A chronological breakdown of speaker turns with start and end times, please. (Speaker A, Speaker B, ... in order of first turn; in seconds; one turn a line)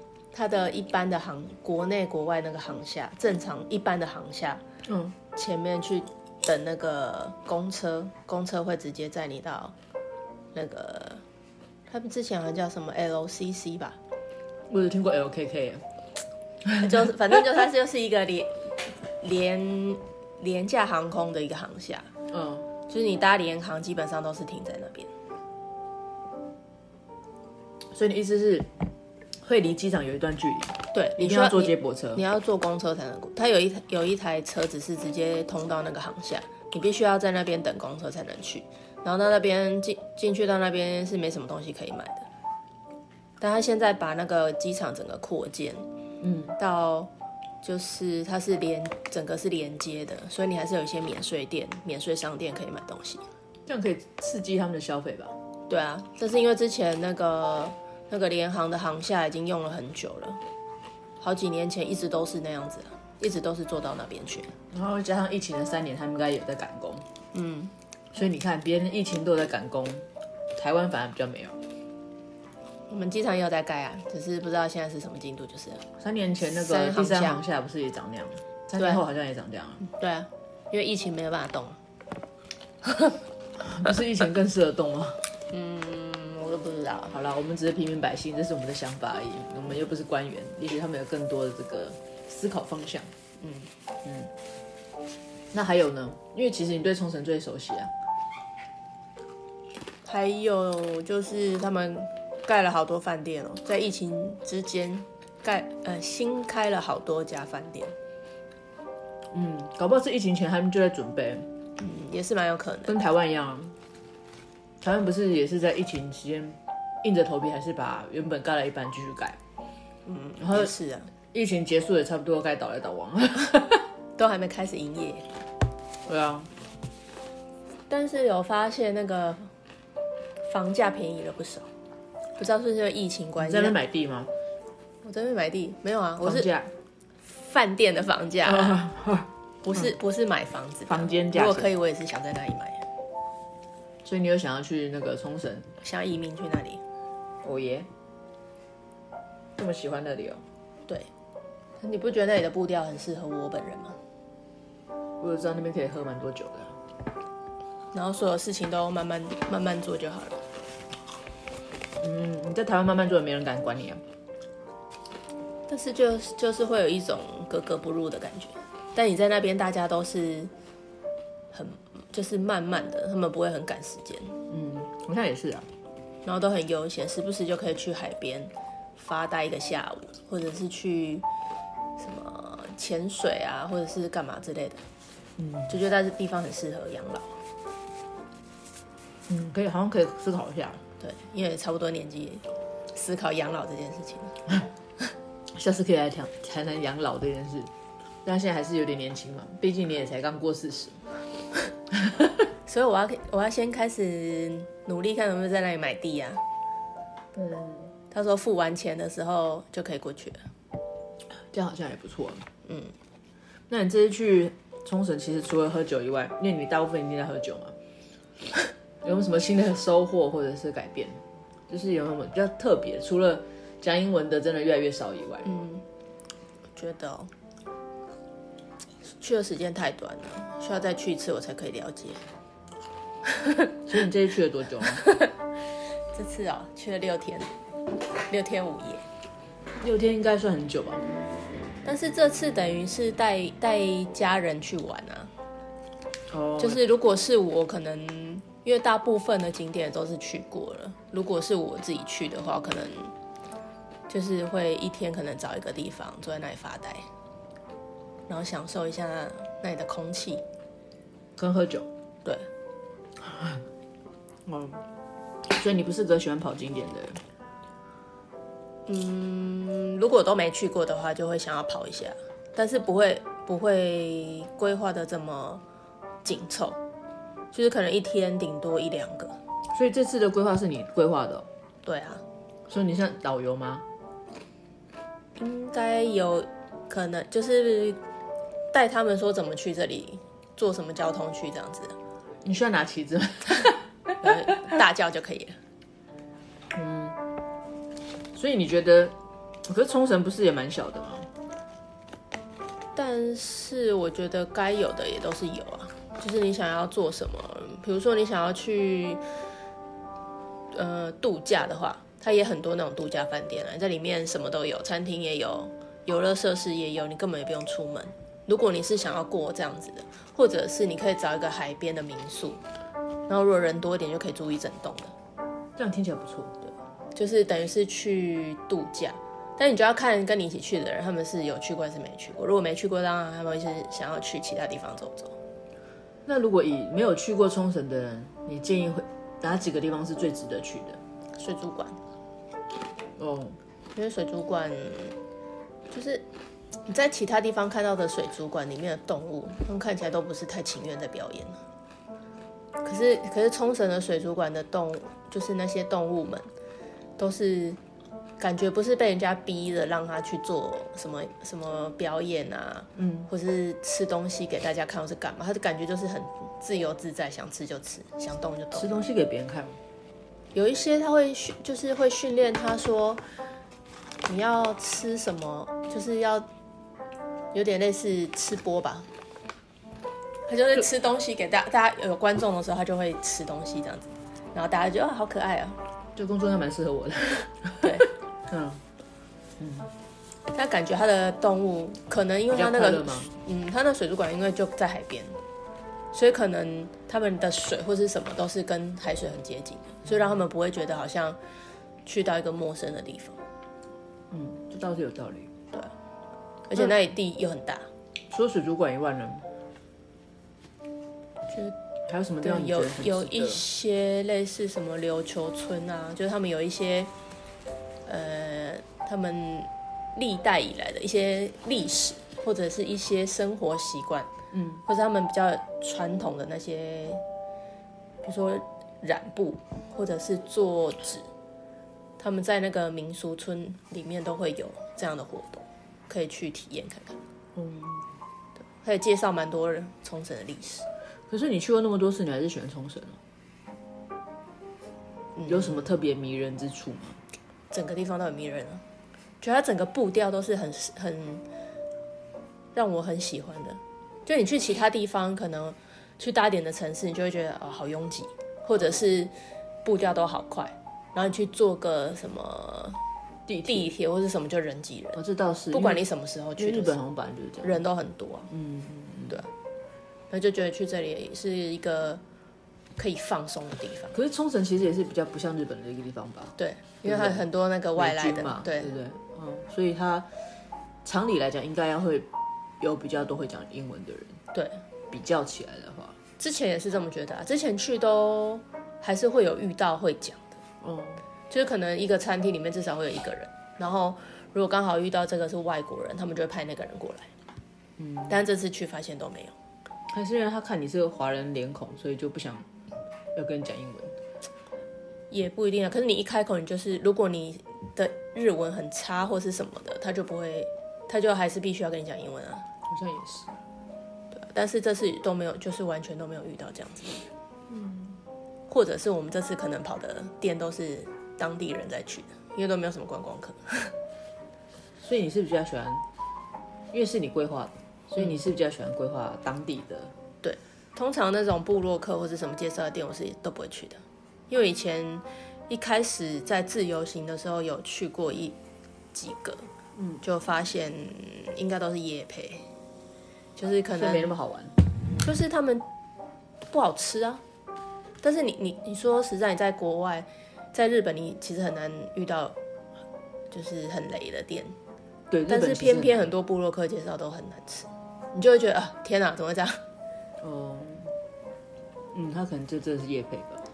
Speaker A: 0.3-4.6
Speaker B: 4.8-5.2
Speaker A: 5.3-9.7
Speaker A: 10.5-11.2
Speaker A: 11.9-14.0
Speaker B: 14.7-15.8
Speaker A: 16.8-22.1
Speaker B: 22.3-22.6
Speaker A: 22.9-25.1
Speaker B: 27.9-28.7
Speaker B: 29.4-32.2
Speaker A: 30.9-42.3
Speaker A: 43.4-45.8
Speaker B: 46.2-46.5
Speaker A: 46.6-47.1
Speaker A: 47.6-53.2
Speaker B: 53.6-55.4
Speaker A: 55.7-60.4
Speaker A: 61.2-64.5
Speaker B: 64.7-67.1
Speaker A: 67.3-67.7
Speaker B: 68.1-71.6
Speaker A: 72.9-75.8
Speaker B: 76.0-79.8
Speaker A: 76.5-77.4
Speaker A: 79.8-81.8
Speaker B: 83.6-85.2
Speaker A: 85.5-87.1
Speaker B: 87.1-93.1
Speaker A: 93.4-93.7
Speaker B: 94.0-94.3
Speaker B: 95.5-97.9
Speaker A: 100.0-107.9
Speaker B: 109.3-111.5
Speaker A: 111.8-113.0
Speaker B: 112.9-113.8
Speaker B: 114.8-119.4
Speaker A: 120.0-121.1
Speaker B: 120.4-120.7
Speaker B: 121.3-123.9
Speaker A: 124.2-125.3
Speaker B: 126.0-126.5
Speaker A: 127.9-129.5
Speaker A: 130.4-131.7
Speaker A: 132.4-133.8
Speaker B: 133.4-134.3
Speaker A: 135.0-136.5
Speaker B: 136.2-136.7
Speaker A: 137.2-138.8
Speaker B: 138.4-139.9
Speaker A: 139.6-142.8
Speaker B: 140.9-141.7
Speaker B: 144.0-145.7
Speaker A: 145.8-146.8
Speaker B: 147.4-147.9
Speaker B: 149.6-150.4
Speaker A: 151.8-154.0
Speaker B: 155.2-156.8
Speaker A: 157.9-160.4
Speaker B: 162.0-164.0
Speaker A: 165.7-170.5
Speaker A: 171.5-174.4
Speaker B: 174.5-175.7
Speaker A: 176.2-181.2
Speaker A: 182.0-184.8
Speaker B: 185.4-185.7
Speaker A: 185.7-187.3
Speaker B: 189.3-190.8
Speaker A: 191.0-194.4
Speaker B: 195.5-197.7
Speaker B: 198.2-201.1
Speaker B: 201.9-202.4
Speaker A: 202.7-206.4
Speaker B: 207.3-207.9
Speaker A: 208.1-210.5
Speaker B: 211.4-212.5
Speaker A: 212.6-212.9
Speaker B: 213.7-217.8
Speaker B: 219.0-225.5
Speaker A: 225.4-225.8
Speaker A: 226.7-227.3
Speaker A: 229.2-232.2
Speaker B: 233.9-235.0
Speaker A: 235.0-235.3
Speaker A: 236.1-237.5
Speaker A: 238.3-239.0
Speaker B: 239.8-241.0
Speaker A: 241.8-245.3
Speaker B: 246.3-246.8
Speaker A: 246.6-253.1
Speaker A: 254.1-257.1
Speaker A: 258.3-260.4
Speaker B: 261.4-261.9
Speaker B: 263.2-263.6
Speaker B: 264.4-264.8
Speaker B: 265.4-267.2
Speaker A: 268.9-275.6
Speaker A: 276.2-276.8
Speaker A: 277.5-279.4
Speaker B: 279.7-281.5
Speaker A: 281.8-282.2
Speaker B: 282.7-283.8
Speaker A: 285.4-288.0
Speaker A: 288.7-291.9
Speaker B: 292.4-294.4
Speaker A: 294.2-295.6
Speaker B: 296.7-297.2
Speaker B: 298.3-301.3
Speaker A: 302.9-309.2
Speaker A: 310.7-322.6
Speaker A: 323.3-325.1
Speaker B: 325.8-326.5
Speaker A: 327.1-335.4
Speaker B: 336.2-341.0
Speaker A: 341.4-342.0
Speaker B: 343.2-343.6
Speaker A: 343.9-345.1
Speaker A: 345.9-346.2
Speaker A: 346.9-351.6
Speaker A: 352.8-356.5
Speaker A: 357.2-357.8
Speaker A: 358.4-369.0
Speaker B: 362.9-363.3
Speaker B: 368.7-369.8
Speaker A: 370.5-373.2
Speaker A: 374.2-376.4
Speaker A: 377.5-379.1
Speaker A: 380.4-385.8
Speaker B: 386.1-388.8
Speaker B: 389.6-389.9
Speaker A: 390.5-395.4
Speaker B: 392.5-393.3
Speaker A: 396.1-401.4
Speaker A: 402.0-403.4
Speaker B: 404.3-405.5
Speaker A: 406.7-407.9
Speaker B: 408.3-409.5
Speaker B: 412.1-413.6
Speaker A: 412.4-417.1
Speaker A: 418.1-424.3
Speaker B: 424.5-424.8
Speaker A: 424.9-427.2
Speaker A: 428.2-431.3
Speaker A: 432.2-437.2
Speaker B: 437.5-438.1
Speaker A: 438.8-440.9
Speaker B: 441.3-443.2
Speaker A: 445.3-445.9
Speaker B: 445.5-447.2
Speaker A: 447.7-448.8
Speaker A: 449.4-451.4
Speaker A: 452.7-459.3
Speaker A: 459.8-463.0
Speaker B: 463.5-463.9
Speaker A: 463.6-465.2
Speaker B: 465.1-466.0
Speaker A: 465.7-466.9
Speaker B: 466.6-467.8
Speaker A: 467.6-468.5
Speaker B: 468.5-469.4
Speaker A: 470.3-472.2
Speaker A: 473.0-474.1
Speaker B: 474.1-477.4
Speaker A: 476.6-478.9
Speaker B: 477.9-480.3
Speaker B: 481.0-482.3
Speaker B: 482.8-484.4
Speaker A: 484.5-484.8
Speaker B: 485.1-486.2
Speaker A: 486.4-490.6
Speaker B: 490.8-491.2
Speaker A: 491.5-497.3
Speaker B: 498.0-498.4
Speaker A: 498.3-499.5
Speaker B: 500.1-502.7
Speaker B: 503.3-504.1
Speaker A: 505.3-512.6
Speaker B: 512.9-513.5
Speaker A: 514.3-517.3
Speaker B: 517.7-518.2
Speaker A: 518.7-523.9
Speaker B: 525.0-526.0
Speaker B: 526.9-530.1
Speaker A: 530.4-538.5
Speaker A: 539.1-539.7
Speaker B: 540.0-540.2
Speaker A: 540.2-542.7
Speaker A: 543.5-544.3
Speaker B: 544.0-544.7
Speaker A: 545.2-545.8
Speaker A: 546.7-547.4
Speaker A: 548.2-552.5
Speaker A: 553.5-554.8
Speaker B: 555.3-556.3
Speaker A: 555.5-559.8
Speaker B: 560.4-561.1
Speaker B: 562.1-563.6